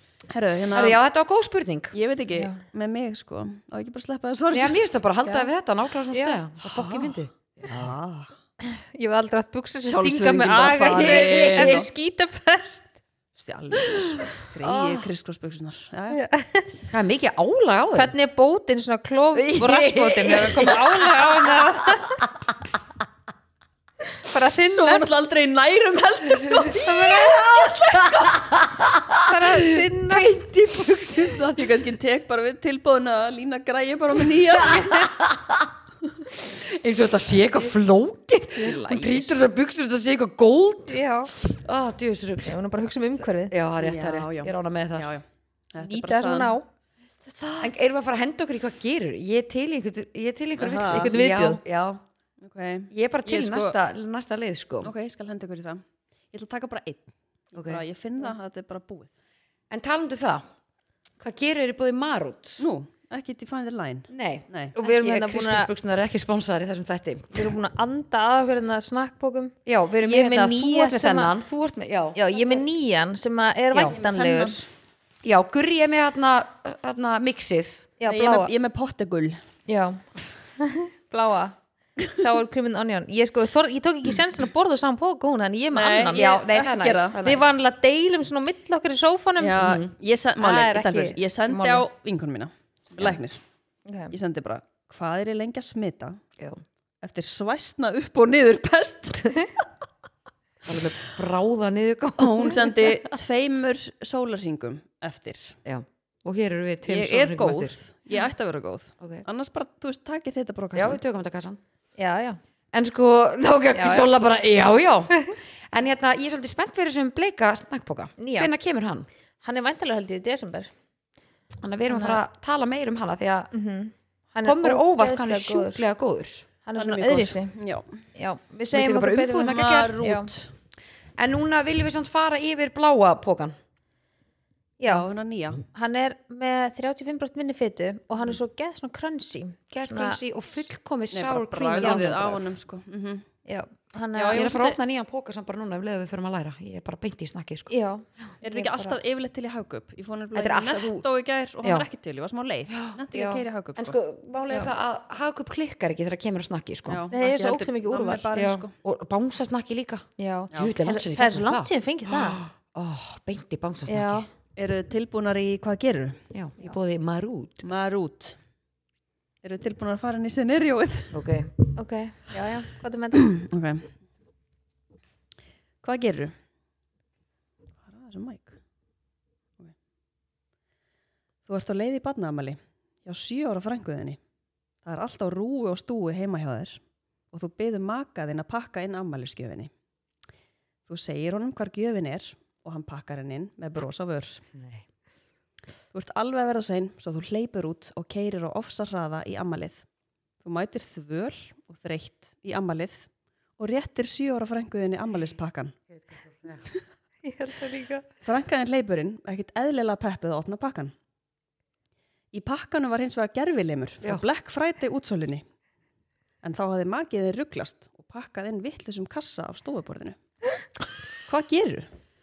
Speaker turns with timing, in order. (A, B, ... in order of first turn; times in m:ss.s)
0:00.3-0:01.0 A
0:00.7-0:02.0 B
0:01.9-0:04.8 A
0:02.3-0:02.6 C
0:04.5-0:07.9 B
0:06.1-0:06.4 C
0:06.6-0:08.3 A
0:08.6-0:12.9 C
0:09.8-0:11.9 A
0:10.8-0:11.9 B
0:13.4-0:16.2 A
0:14.6-0:15.1 B
0:16.1-0:16.7 C
0:16.9-0:18.1 B
0:17.9-0:22.2 C
0:19.4-0:21.7 B
0:24.1-0:25.1 C
0:24.7-0:28.6 A
0:26.7-0:27.7 C
0:27.6-0:31.7 B
0:29.2-0:30.3 C
0:31.5-0:35.1 A
0:34.6-0:35.7 B
0:36.4-0:42.5 B
0:38.6-0:39.4 A
0:40.9-0:41.3 C
0:42.4-0:43.5 C
0:43.4-0:45.1 B
0:43.8-0:46.6 A
0:45.8-0:46.6 C
0:47.6-0:52.0 B
0:50.6-0:51.2 A
0:50.8-0:51.6 C
0:52.4-0:53.8 A
0:52.9-0:54.9 B
0:54.8-0:59.1 A
0:57.6-0:57.8 B
0:59.7-1:00.4 B
1:01.2-1:02.6 B
1:02.6-1:04.8 A
1:04.1-1:07.5 B
1:04.8-1:05.7 C
1:07.3-1:11.4 C
1:09.7-1:12.6 B
1:12.2-1:14.6 C
1:13.9-1:14.6 A
1:15.2-1:17.9 B
1:18.0-1:18.5 C
1:18.1-1:19.4 A
1:19.7-1:20.1 C
1:20.6-1:26.3 C
1:25.7-1:27.2 A
1:26.1-1:27.5 B
1:27.2-1:29.8 C
1:29.4-1:33.4 A
1:29.6-1:29.9 B
1:30.4-1:31.8 C
1:33.9-1:34.1 C
1:34.1-1:36.2 A
1:37.0-1:39.5 A
1:40.6-1:43.1 B
1:42.2-1:45.6 A
1:45.6-1:47.8 B
1:46.9-1:51.0 A
1:50.8-1:51.6 B
1:52.0-1:52.4 C
1:52.7-1:59.1 B
1:53.7-1:54.1 C
1:58.2-1:58.5 C
1:59.4-2:00.7 C
2:01.6-2:03.5 B
2:01.9-2:02.2 C
2:03.5-2:05.8 C
2:04.4-2:06.5 B
2:06.7-2:07.6 C
2:06.8-2:08.0 A
2:08.2-2:10.3 C
2:08.7-2:10.0 B
2:09.4-2:10.5 A
2:11.2-2:13.6 B
2:14.8-2:15.1 C
2:14.9-2:15.6 A
2:15.7-2:20.2 C
2:19.7-2:22.6 B
2:21.1-2:23.2 A
2:23.5-2:24.5 C
2:24.2-2:24.8 A
2:24.3-2:27.7 B
2:27.7-2:29.0 C
2:28.4-2:34.0 A
2:30.3-2:31.0 B
2:32.7-2:37.0 B
2:36.9-2:38.7 A
2:37.1-2:38.3 C
2:38.3-2:44.3 B
2:40.2-2:42.4 C
2:43.9-2:44.3 C
2:44.6-2:46.2 A
2:46.3-2:47.6 B
2:47.6-2:48.4 A
2:49.4-2:51.2 A
2:51.1-2:51.5 B
2:51.8-2:53.3 C
2:53.2-2:53.9 A
2:55.8-2:56.3 A
2:57.9-2:58.6 A
3:01.5-3:04.2 A
3:04.8-3:09.7 A
3:10.9-3:14.4 A
3:14.6-3:14.8 B
3:15.9-3:19.8 A
3:20.4-3:23.1 A
3:23.6-3:25.8 A
3:25.9-3:26.6 B
3:27.2-3:28.0 C
3:28.2-3:30.9 A
3:32.3-3:35.4 A
3:36.4-3:40.2 A
3:41.3-3:41.9 A